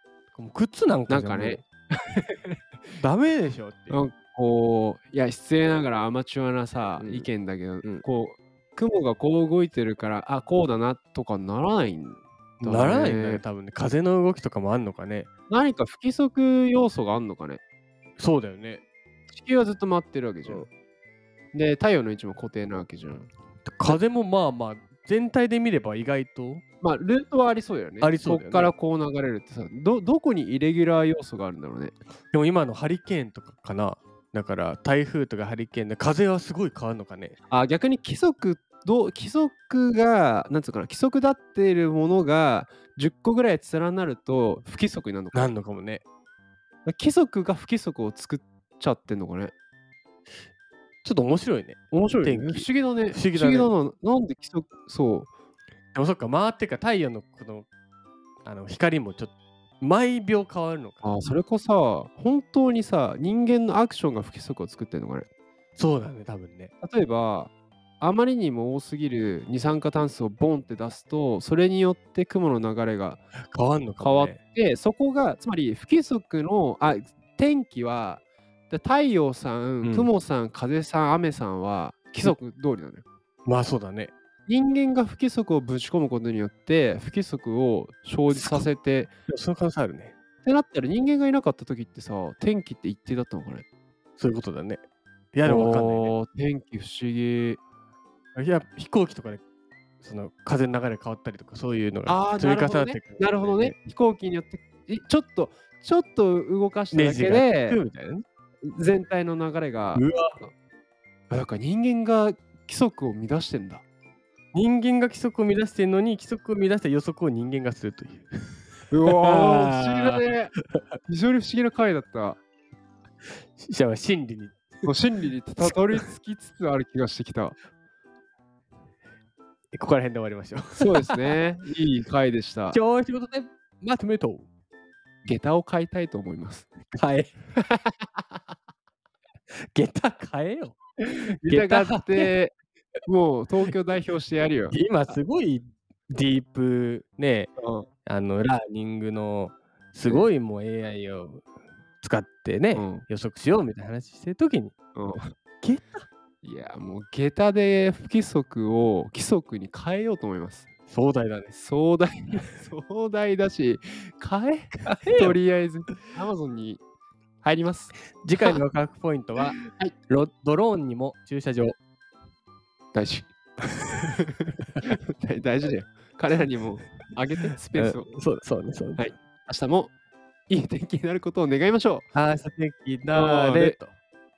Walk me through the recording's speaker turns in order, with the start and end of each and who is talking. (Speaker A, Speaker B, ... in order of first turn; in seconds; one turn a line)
Speaker A: 0.3-1.6
Speaker B: 1.1-2.6
Speaker A: 3.0-4.0
Speaker B: 3.9-13.4
Speaker A: 7.0-7.3
Speaker A: 12.6-15.3
Speaker B: 15.5-17.6
Speaker A: 18.2-18.8
Speaker B: 19.3-20.7
Speaker B: 21.5-23.3
Speaker A: 23.7-26.6
Speaker B: 26.8-31.9
Speaker A: 28.0-28.7
Speaker A: 32.3-37.4
Speaker B: 37.5-45.5
Speaker A: 45.3-46.0
Speaker B: 46.9-49.5
Speaker A: 51.0-53.7
Speaker B: 51.9-55.3
Speaker A: 55.9-57.7
Speaker A: 58.4-61.0
Speaker B: 61.0-65.3
Speaker A: 65.8-66.7
Speaker B: 66.8-73.2
Speaker A: 73.5-74.4
Speaker B: 74.0-83.0
Speaker A: 79.8-80.1
Speaker A: 83.5-84.1
Speaker B: 84.5-89.1
Speaker A: 88.3-88.7
Speaker A: 89.3-90.2
Speaker B: 90.4-93.7
Speaker A: 94.2-94.8
Speaker A: 95.3-96.2
Speaker B: 95.5-97.6
Speaker A: 98.3-99.4
Speaker A: 100.0-103.8
Speaker B: 102.1-107.8
Speaker A: 106.9-108.2
Speaker B: 108.7-110.5
Speaker A: 110.0-110.4
Speaker B: 111.3-113.8
Speaker A: 114.5-120.8
Speaker B: 118.9-120.5
Speaker B: 121.1-122.4
Speaker A: 123.6-124.9
Speaker B: 124.8-127.6
Speaker A: 125.6-126.0
Speaker A: 129.7-131.4
Speaker B: 130.8-132.8
Speaker A: 132.7-134.5
Speaker B: 135.3-136.7
Speaker A: 136.9-137.3
Speaker A: 139.6-142.3
Speaker B: 141.4-142.6
Speaker B: 143.1-144.8
Speaker A: 144.7-147.5
Speaker B: 147.6-147.9
Speaker A: 148.1-151.4
Speaker A: 152.0-154.7
Speaker B: 152.7-153.0
Speaker B: 154.9-155.3
Speaker A: 155.6-156.1
Speaker B: 156.4-160.7
Speaker A: 160.9-161.6
Speaker B: 161.5-166.8
Speaker A: 164.9-165.4
Speaker B: 167.4-168.6
Speaker A: 168.2-171.8
Speaker B: 169.5-169.9
Speaker B: 172.9-173.3
Speaker A: 173.7-174.1
Speaker B: 174.0-178.1
Speaker A: 177.8-179.1
Speaker B: 179.0-179.9
Speaker B: 180.5-182.1
Speaker A: 182.1-183.9
Speaker B: 183.1-183.8